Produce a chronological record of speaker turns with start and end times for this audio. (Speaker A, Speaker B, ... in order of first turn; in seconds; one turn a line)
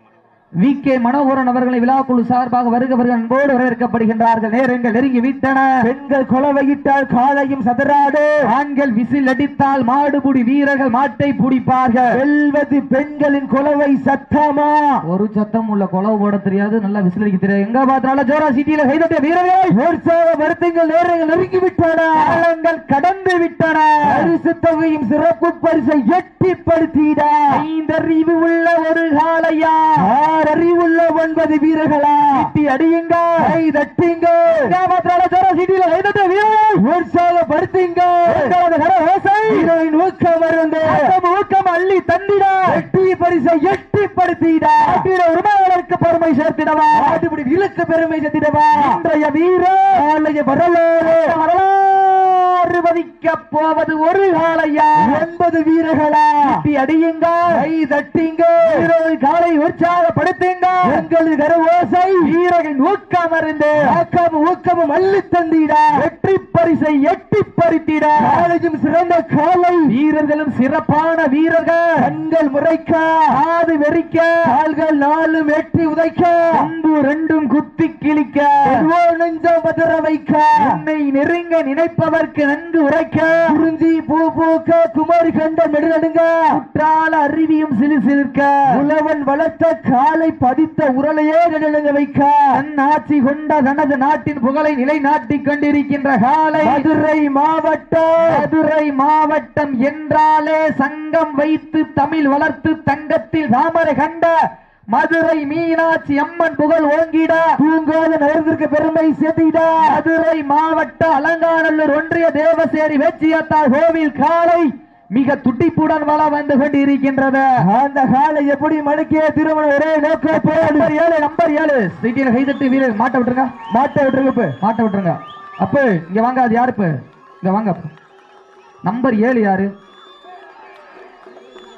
Speaker A: 0.6-5.7
Speaker B: 5.8-8.4
Speaker A: 8.5-12.2
Speaker B: 12.1-15.0
Speaker A: 15.1-19.8
Speaker B: 19.7-22.4
Speaker A: 22.2-24.3
Speaker B: 24.1-27.6
Speaker A: 27.5-30.1
Speaker B: 30.0-32.5
Speaker A: 32.3-33.5
Speaker B: 33.4-34.7
Speaker A: 34.5-36.8
Speaker B: 36.8-38.6
Speaker A: 38.2-39.7
Speaker B: 39.5-41.2
Speaker A: 40.9-42.8
Speaker B: 42.7-45.1
Speaker A: 44.8-47.2
Speaker B: 47.0-49.0
Speaker A: 48.7-50.0
Speaker B: 49.9-51.4
Speaker A: 51.0-55.2
Speaker B: 55.0-56.6
Speaker A: 56.4-57.6
Speaker B: 57.5-58.8
Speaker A: 58.6-61.0
Speaker B: 60.8-62.3
Speaker A: 62.2-64.0
Speaker B: 63.9-66.0
Speaker A: 66.0-68.5
Speaker B: 68.2-69.9
Speaker A: 69.9-72.1
Speaker B: 72.0-73.3
Speaker A: 73.3-74.5
Speaker B: 74.5-76.7
Speaker A: 76.5-78.9
Speaker B: 78.7-80.8
Speaker A: 80.6-83.6
Speaker B: 83.5-86.5
Speaker A: 86.5-88.6
Speaker B: 88.7-92.6
Speaker A: 92.5-96.9
Speaker B: 96.6-98.4
Speaker A: 98.2-104.3
Speaker A: 104.9-107.5
Speaker B: 107.6-110.0
Speaker A: 109.8-117.5
Speaker B: 117.6-120.9
Speaker A: 120.3-123.5
Speaker B: 123.7-124.5
Speaker A: 124.6-127.9
Speaker A: 128.8-129.7